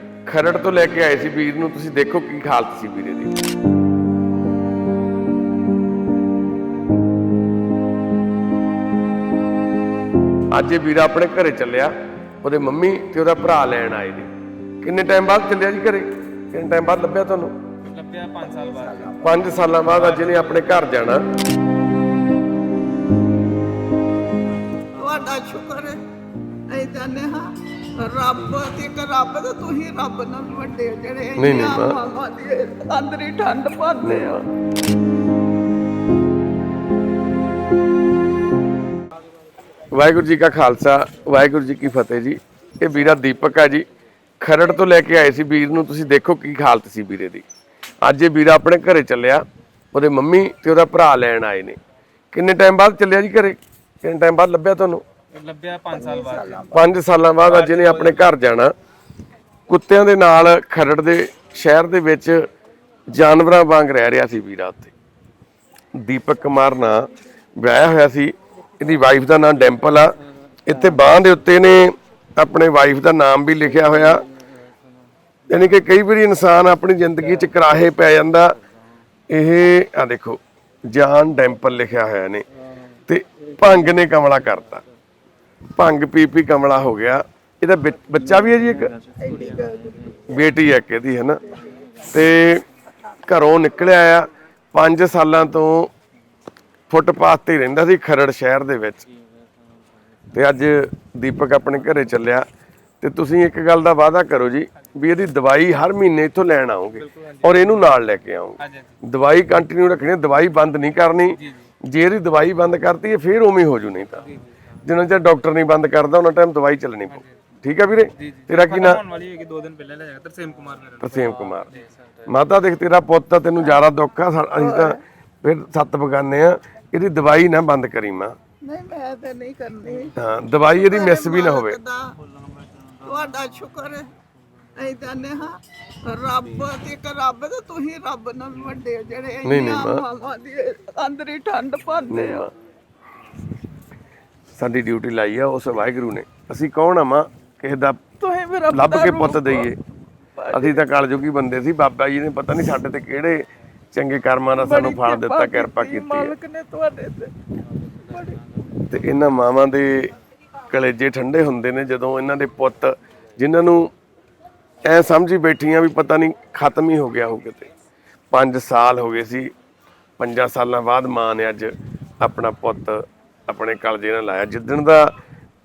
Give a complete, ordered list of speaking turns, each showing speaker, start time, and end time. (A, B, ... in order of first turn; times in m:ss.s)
0:00.3-0:03.3 A
0:10.5-0:14.3 A
0:14.8-0:17.6 A
0:17.8-0:19.3 B
0:18.7-0:19.2 C
0:19.2-0:21.2 A
0:19.8-0:20.8 B
0:25.0-0:26.0 C
0:26.7-0:34.4 C
0:31.4-0:32.0 A
0:34.0-0:34.4 A
0:39.9-0:43.9 A
0:44.4-0:47.4 A
0:48.0-0:51.8 A
0:52.3-0:55.0 A
0:55.3-0:56.7 B
0:55.9-0:56.8 C
0:56.7-0:58.7 A
0:57.4-0:58.4 B
0:59.7-1:02.5 A
1:03.1-1:04.9 A
1:06.0-1:14.3 A
1:15.5-1:18.6 A
1:19.3-1:22.5 A
1:23.1-1:24.8 A
1:25.8-1:29.0 A
1:29.2-1:30.2 C
1:30.3-1:31.4 A
1:32.0-1:32.6 A
1:33.2-1:35.9 A
1:36.9-1:39.0 A
1:40.3-1:42.5 A
1:43.0-1:54.3 A
1:47.0-1:47.7 B
1:48.6-1:49.0 B
1:51.4-1:51.7 B
1:54.8-1:59.0 A
1:58.2-2:02.2 B
2:01.0-2:01.7 A
2:02.3-2:08.4 A
2:04.6-2:05.0 C
2:08.6-2:10.2 C
2:10.2-2:11.8 A
2:10.7-2:12.2 C
2:12.9-2:14.1 C
2:14.8-2:22.5 C
2:19.4-2:20.0 A
2:22.1-2:22.5 A
2:24.6-2:28.0 A
2:28.2-2:29.7 C
2:28.7-2:29.8 A
2:30.4-2:30.9 C
2:30.5-2:36.3 A
2:34.6-2:37.3 C
2:38.0-2:38.4 C
2:38.8-2:40.2 A
2:40.7-2:43.9 A
2:44.8-2:47.7 A
2:48.3-2:49.5 A
2:50.2-2:55.2 A